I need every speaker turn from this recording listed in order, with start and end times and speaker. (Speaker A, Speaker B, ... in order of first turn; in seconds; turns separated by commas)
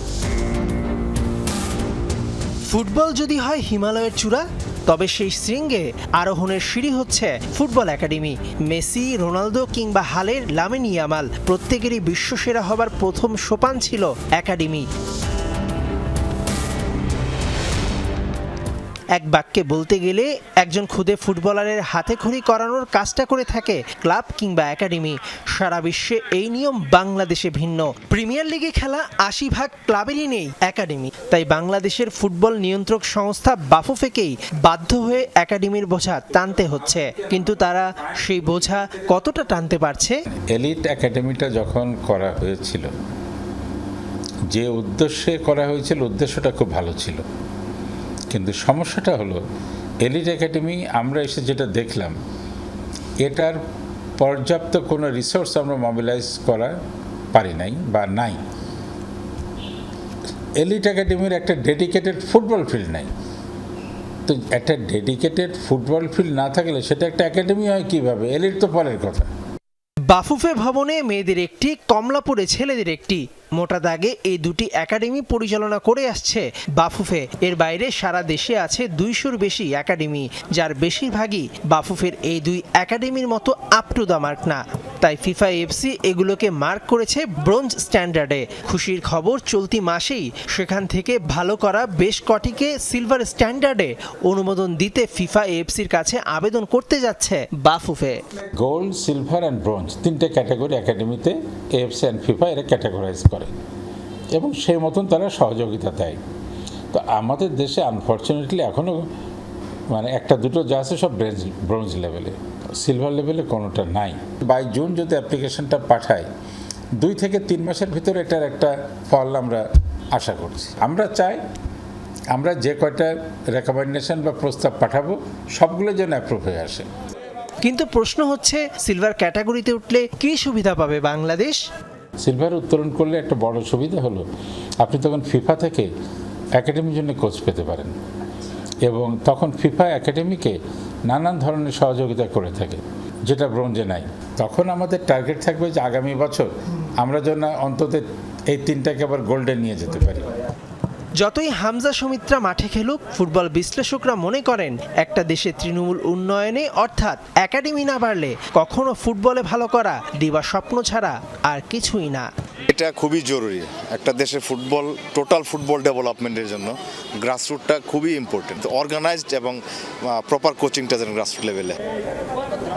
Speaker A: 2.7-14.9, Speaker A: 19.1-40.2, Speaker B: 40.5-42.9, Speaker B: 44.5-47.2, Speaker B: 48.3-49.4, Speaker B: 50.0-52.1, Speaker B: 53.2-53.6, Speaker B: 54.2-56.7, Speaker B: 57.3-58.4, Speaker B: 60.6-63.1, Speaker B: 64.2-69.3, Speaker A: 70.1-98.2, Speaker B: 98.5-103.5, Speaker B: 104.3-106.2, Speaker B: 106.9-109.0, Speaker B: 109.9-116.2, Speaker B: 117.0-119.6, Speaker B: 120.1-121.4, Speaker B: 122.3-126.8, Speaker A: 127.6-131.6, Speaker B: 132.2-134.2, Speaker B: 134.8-135.9, Speaker B: 136.6-137.9, Speaker B: 138.9-140.6, Speaker B: 141.1-150.3, Speaker A: 151.2-162.3, Speaker C: 162.7-171.8